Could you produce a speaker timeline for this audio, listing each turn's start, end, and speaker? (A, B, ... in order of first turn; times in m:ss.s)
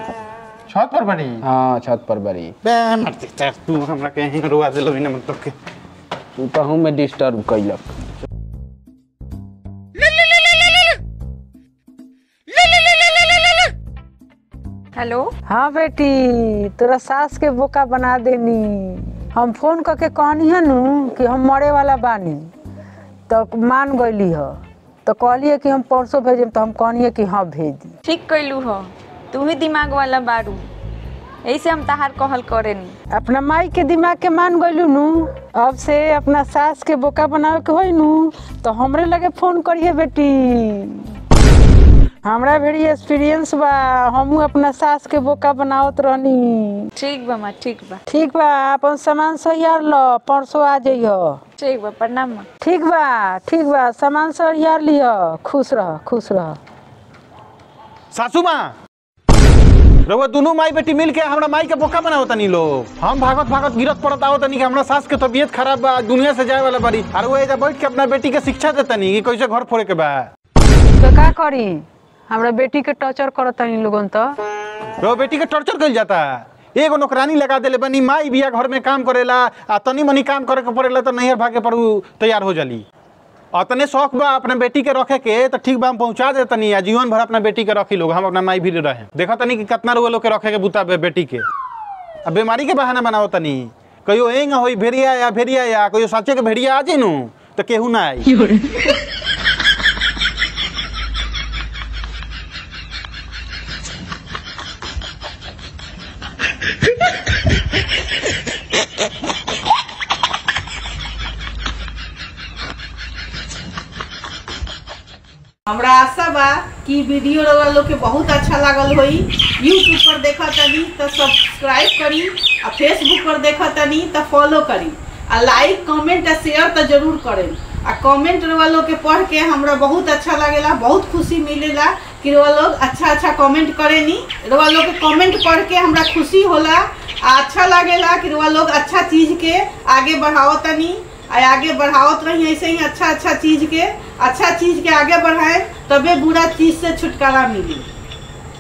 0:00.7-0:01.4 A
0:01.4-0:02.6 B
0:02.6-0:05.6 A
0:06.4-0:07.8 B
0:15.0-0:15.3 C
0:15.5-0:22.5 D
0:23.3-0:24.6 D
0:25.1-0:27.9 D
0:28.0-0:30.7 C
0:31.4-0:32.9 C
0:33.1-0:41.1 D
0:42.2-0:46.9 D
0:47.0-0:48.0 C
0:48.1-0:51.4 D
0:51.6-0:52.5 C
0:52.6-0:56.6 D
0:58.1-0:58.8 A
1:00.1-1:10.3 A
1:11.0-1:14.2 D
1:15.0-1:22.9 A
1:23.5-1:31.5 A
1:32.2-1:38.3 A
1:38.3-1:38.9 C
1:55.7-2:27.9 E